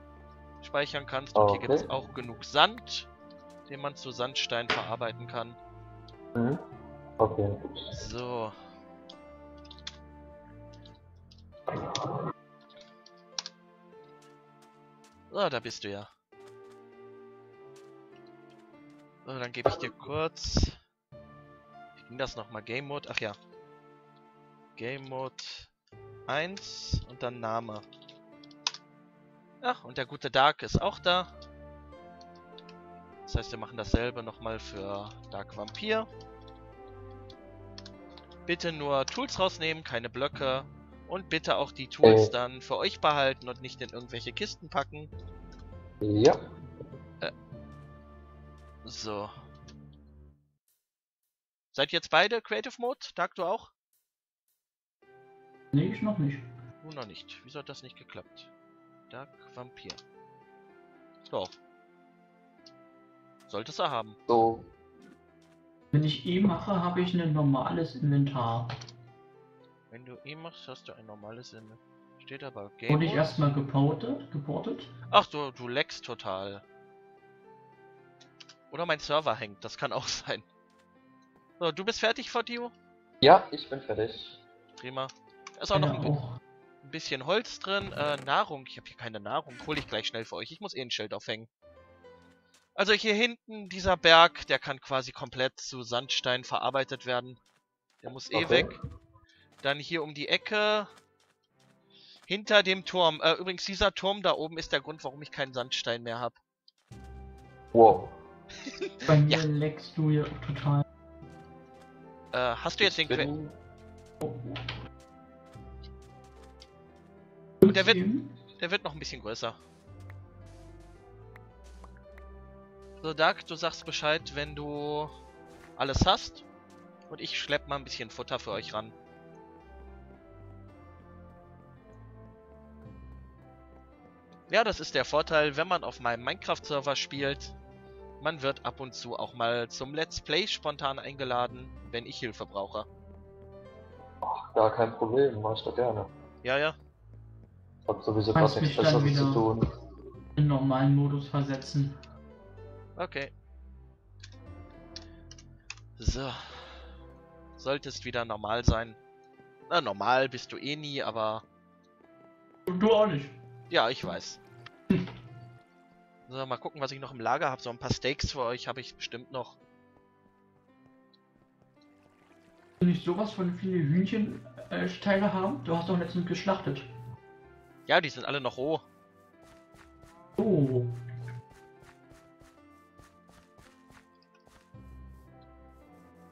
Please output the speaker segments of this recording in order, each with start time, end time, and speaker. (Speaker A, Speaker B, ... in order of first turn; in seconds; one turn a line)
Speaker A: 0.6-3.1
Speaker B: 1.4-1.9
Speaker A: 3.7-5.6
Speaker B: 6.3-6.6
Speaker B: 7.2-8.0
Speaker A: 7.9-8.6
Speaker A: 15.3-16.1
Speaker A: 19.3-20.8
Speaker A: 22.0-23.4
Speaker A: 24.8-25.7
Speaker A: 26.3-27.9
Speaker A: 29.6-31.3
Speaker A: 33.3-36.1
Speaker A: 38.5-45.1
Speaker B: 42.0-42.3
Speaker B: 46.0-46.4
Speaker A: 48.9-49.3
Speaker A: 51.7-53.7
Speaker C: 55.7-56.5
Speaker A: 56.8-58.5
Speaker A: 59.1-60.0
Speaker A: 61.3-61.5
Speaker A: 63.5-64.2
Speaker B: 64.3-64.7
Speaker C: 65.9-68.7
Speaker A: 69.9-73.5
Speaker C: 72.9-74.9
Speaker A: 75.1-76.6
Speaker A: 78.7-80.5
Speaker A: 81.6-82.7
Speaker B: 83.2-84.4
Speaker A: 84.8-86.2
Speaker C: 85.7-86.4
Speaker A: 86.8-91.5
Speaker A: 92.8-97.4
Speaker A: 98.0-98.7
Speaker B: 98.3-98.8
Speaker A: 99.6-100.9
Speaker A: 102.3-106.4
Speaker B: 107.7-108.2
Speaker A: 108.7-109.4
Speaker C: 109.1-110.8
Speaker A: 112.3-113.3
Speaker B: 112.8-113.6
Speaker C: 114.2-114.6
Speaker C: 117.6-118.3
Speaker A: 117.7-118.0
Speaker A: 118.6-119.6
Speaker A: 123.0-125.1
Speaker A: 125.8-126.5
Speaker A: 127.1-128.9
Speaker A: 134.5-137.6
Speaker A: 138.2-142.9
Speaker B: 144.2-146.1
Speaker A: 146.4-146.8
Speaker B: 147.9-149.7
Speaker C: 148.3-149.5
Speaker C: 150.4-152.0
Speaker A: 153.0-153.3
Speaker A: 156.0-156.9
Speaker A: 157.6-159.0
Speaker A: 159.7-161.4
Speaker C: 162.7-163.4
Speaker A: 163.7-164.4
Speaker A: 166.3-169.6
Speaker C: 172.8-176.9
Speaker A: 177.9-178.8
Speaker C: 180.4-181.0